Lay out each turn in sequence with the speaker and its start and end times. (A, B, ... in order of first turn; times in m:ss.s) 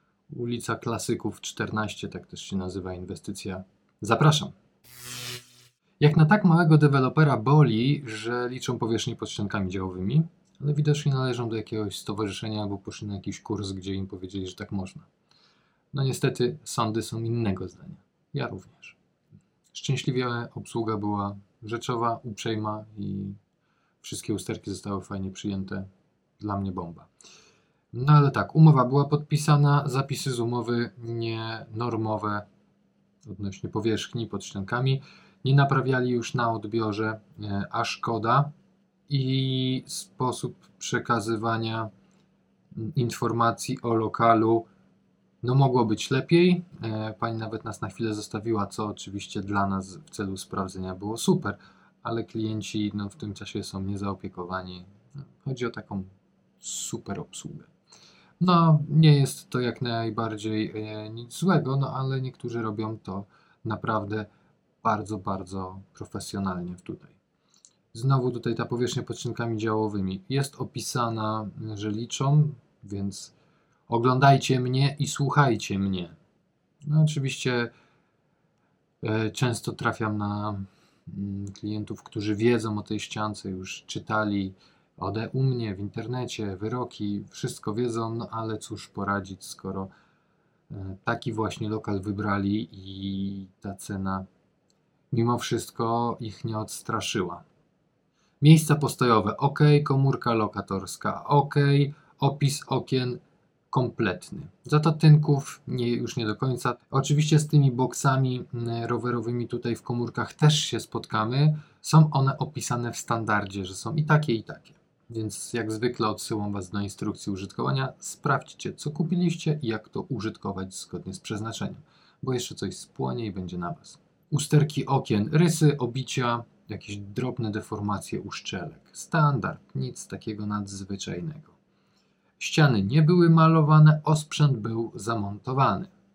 0:00.3-0:04.5 A
0:06.0-0:15.1 A
0:15.9-0:19.0 A
0:19.7-0:23.4 A
0:24.0-0:25.9 A
0:26.4-0:27.1 A
0:27.9-0:32.4 A
0:33.2-0:38.5 A
0:39.1-0:41.9 A
0:42.7-0:44.7 A
0:45.4-0:57.7 A
0:58.4-1:04.3 A
1:04.8-1:07.2 A
1:07.9-1:13.3 A
1:13.9-1:16.2 A
1:16.8-1:17.7 A
1:19.0-1:29.9 A
1:30.7-1:34.3 A
1:35.1-1:37.4 A
1:38.4-2:11.6 A
2:12.4-2:15.9 A